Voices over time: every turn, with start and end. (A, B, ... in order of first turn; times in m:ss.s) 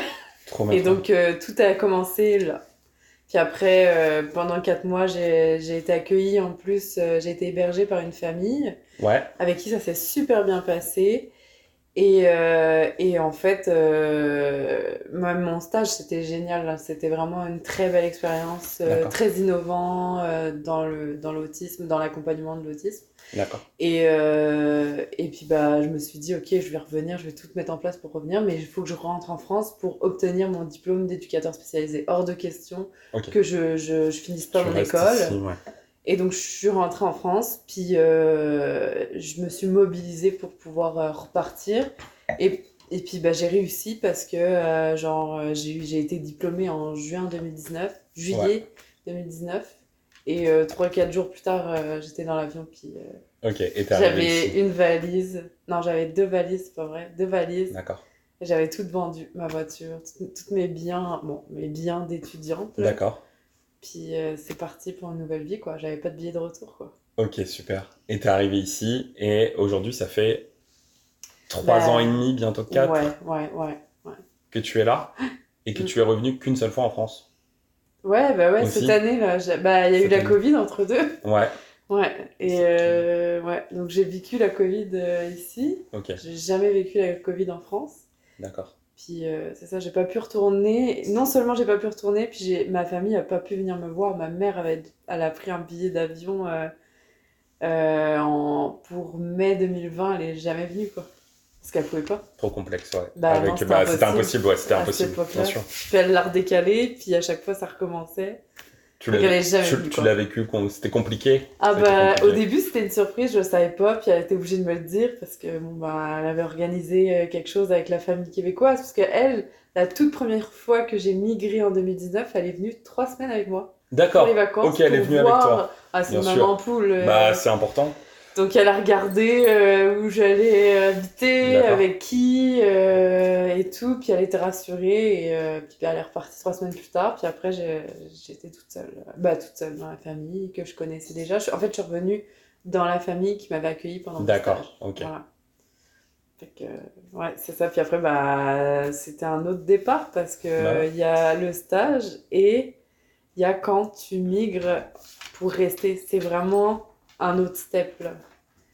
0:00.5-0:01.0 A
0:00.7-0:02.6 B
0:03.3-0:08.8 B
0:09.0-0:09.3 A
0:09.4-0:11.3 B
0:12.0-0:23.1 B
0:18.9-0:19.2 A
0:23.3-0:23.6 A
0:23.8-0:35.4 B
0:34.5-0:35.6 A
0:36.0-0:49.8 B
0:50.3-0:53.2 B
0:53.4-0:54.6 A
0:53.9-0:57.8 B
0:57.7-0:58.0 A
0:58.4-1:03.0 B
1:02.8-1:03.2 A
1:03.8-1:06.9 B
1:07.2-1:10.5 A
1:11.5-1:13.0 A
1:11.6-1:12.2 B
1:12.7-1:14.2 B
1:14.5-1:15.1 A
1:15.6-1:17.2 A
1:18.0-1:21.2 B
1:18.6-1:19.0 A
1:20.0-1:20.4 A
1:21.2-1:21.5 A
1:21.9-1:28.0 B
1:22.5-1:23.0 A
1:25.9-1:26.2 A
1:28.4-1:28.7 A
1:29.0-1:36.7 B
1:37.6-1:41.1 B
1:41.6-1:42.2 B
1:42.4-1:45.7 A
1:43.2-1:48.4 B
1:49.0-1:52.4 A
1:49.1-1:50.1 B
1:51.6-2:07.4 B
2:03.9-2:08.0 A
2:08.4-2:25.2 B
2:11.4-2:11.8 A
2:24.2-2:25.1 A
2:26.4-2:32.8 B
2:30.6-2:30.9 A
2:33.4-2:38.2 B